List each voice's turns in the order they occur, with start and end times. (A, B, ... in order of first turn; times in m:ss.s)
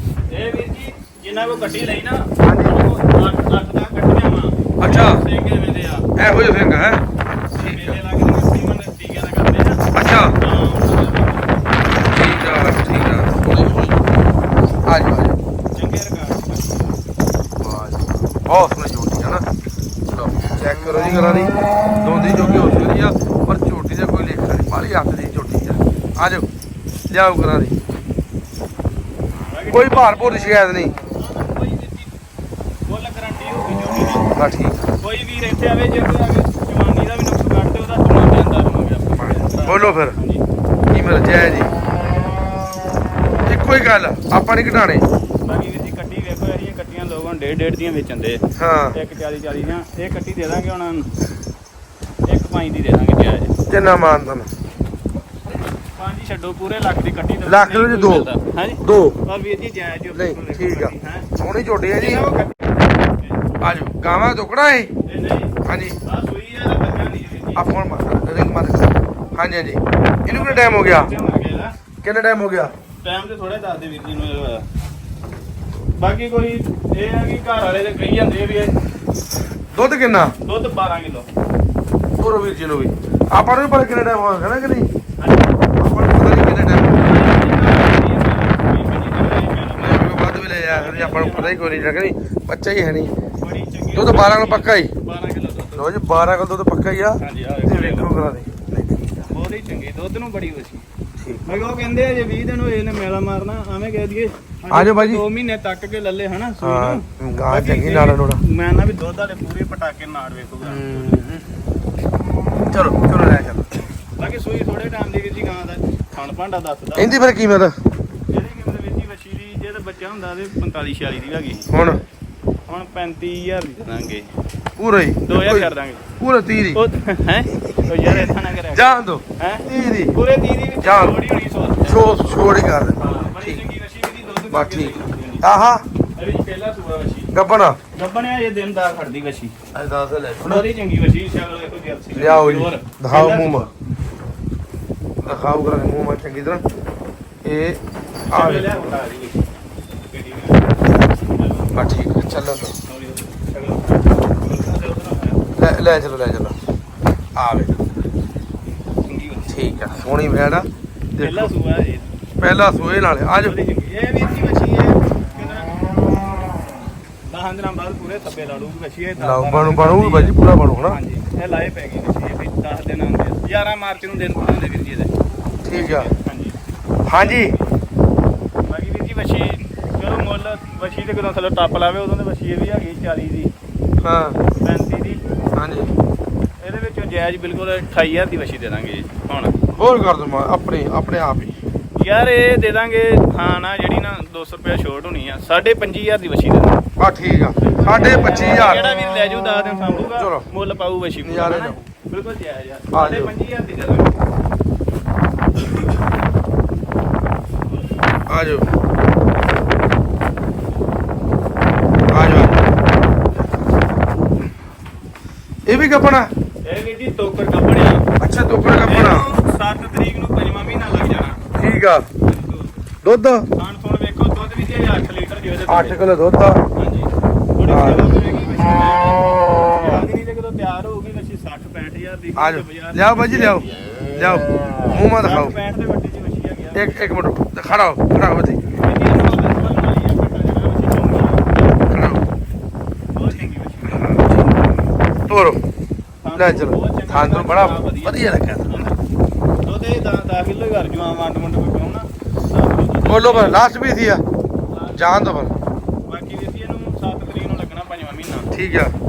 0:00.3-0:06.1 A
0:02.4-0:02.8 B
0:04.8-0:05.2 B
0:06.2-0:07.0 B
0:07.5-0:08.0 B
0:07.6-0:09.9 A
0:09.9-0:10.3 B
0:10.4-0:11.7 A
0:12.0-0:14.1 B
0:14.8-0:15.4 B
0:15.7-0:16.9 A
0:17.6-0:19.4 B
0:20.0-0:26.5 B
0:22.5-0:22.9 A
0:27.1-0:27.8 B
0:29.4-0:32.1 A
0:29.7-0:30.9 B
0:32.8-0:34.3 A
0:34.3-0:34.8 B
0:35.0-0:40.4 A
0:39.2-0:40.2 B
0:40.9-0:41.7 B
0:43.4-0:45.0 B
0:45.4-0:51.1 A
0:48.6-0:49.0 B
0:52.3-0:53.5 A
0:53.7-0:54.5 B
0:55.9-1:01.3 A
0:57.4-0:58.3 B
0:58.8-0:59.2 B
1:00.1-1:02.3 B
1:02.0-1:03.4 A
1:03.6-1:04.9 B
1:05.0-1:07.6 A
1:05.6-1:06.0 B
1:07.5-1:11.1 B
1:10.3-1:11.7 A
1:12.0-1:12.7 B
1:13.0-1:14.6 A
1:16.0-1:18.7 A
1:19.7-1:20.3 B
1:20.4-1:21.3 A
1:22.2-1:24.9 B
1:25.2-1:25.5 A
1:25.8-1:26.9 B
1:26.8-1:31.6 A
1:29.8-1:33.1 B
1:33.4-1:36.0 A
1:33.9-1:34.9 B
1:35.7-1:39.3 B
1:37.2-1:38.1 A
1:39.3-1:40.8 A
1:41.2-1:41.4 B
1:41.4-1:51.2 A
1:44.7-1:45.2 B
1:46.6-1:48.4 B
1:50.6-1:51.5 B
1:52.7-1:53.7 B
1:54.2-1:57.2 A
1:57.0-1:57.7 B
1:58.3-2:01.7 A
2:01.7-2:02.0 B
2:02.7-2:04.3 A
2:04.8-2:06.8 B
2:05.3-2:06.0 A
2:06.7-2:12.0 A
2:07.9-2:10.1 B
2:10.8-2:11.2 B
2:11.8-2:13.6 B
2:13.0-2:15.5 A
2:14.5-2:15.8 B
2:16.2-2:17.3 A
2:17.3-2:17.8 B
2:17.9-2:19.5 A
2:19.7-2:20.6 B
2:20.4-2:23.7 A
2:22.1-2:23.7 B
2:25.2-2:26.6 B
2:27.4-2:27.8 B
2:28.3-2:28.7 B
2:28.3-2:29.4 A
2:30.1-2:30.7 A
2:31.3-2:31.8 A
2:31.7-2:32.7 B
2:32.9-2:35.4 A
2:35.6-2:36.5 B
2:37.4-2:37.8 B
2:39.1-2:39.6 A
2:39.5-2:41.5 B
2:41.2-2:42.2 A
2:42.4-2:43.6 B
2:43.4-2:45.9 A
2:47.3-2:55.1 A
2:49.2-2:51.0 B
2:55.6-2:56.1 B
2:55.7-2:56.6 A
2:57.0-2:57.5 B
2:57.1-2:57.6 A
2:58.7-3:03.5 A
3:04.0-3:04.4 B
3:04.6-3:05.2 A
3:05.5-3:05.9 B
3:06.6-3:09.6 A
3:09.8-3:11.5 B
3:12.0-3:16.8 A
3:17.0-3:18.9 B
3:17.6-3:24.1 A
3:20.2-3:20.4 B
3:21.2-3:21.8 B
3:22.9-3:23.3 B
3:28.3-3:28.6 B
3:32.1-3:32.5 B
3:35.6-3:36.3 B
3:36.6-3:38.0 A
3:38.2-3:39.3 B
3:38.8-3:41.4 A
3:41.5-3:42.0 B
3:42.2-3:42.7 A
3:43.0-3:43.5 B
3:43.5-3:46.0 A
3:45.7-3:46.6 B
3:46.8-3:53.8 A
3:47.7-3:48.1 B
3:52.4-3:55.5 B
3:55.2-3:57.2 A
3:56.7-3:58.6 B
3:58.7-4:01.8 A
4:01.9-4:02.2 B
4:03.1-4:04.1 A
4:03.8-4:04.6 B
4:05.3-4:05.6 B
4:06.2-4:09.0 A
4:06.4-4:08.8 B
4:09.6-4:13.6 A
4:13.0-4:14.2 B
4:14.7-4:15.2 A
4:14.9-4:15.5 B
4:16.1-4:18.5 A
4:18.5-4:18.9 B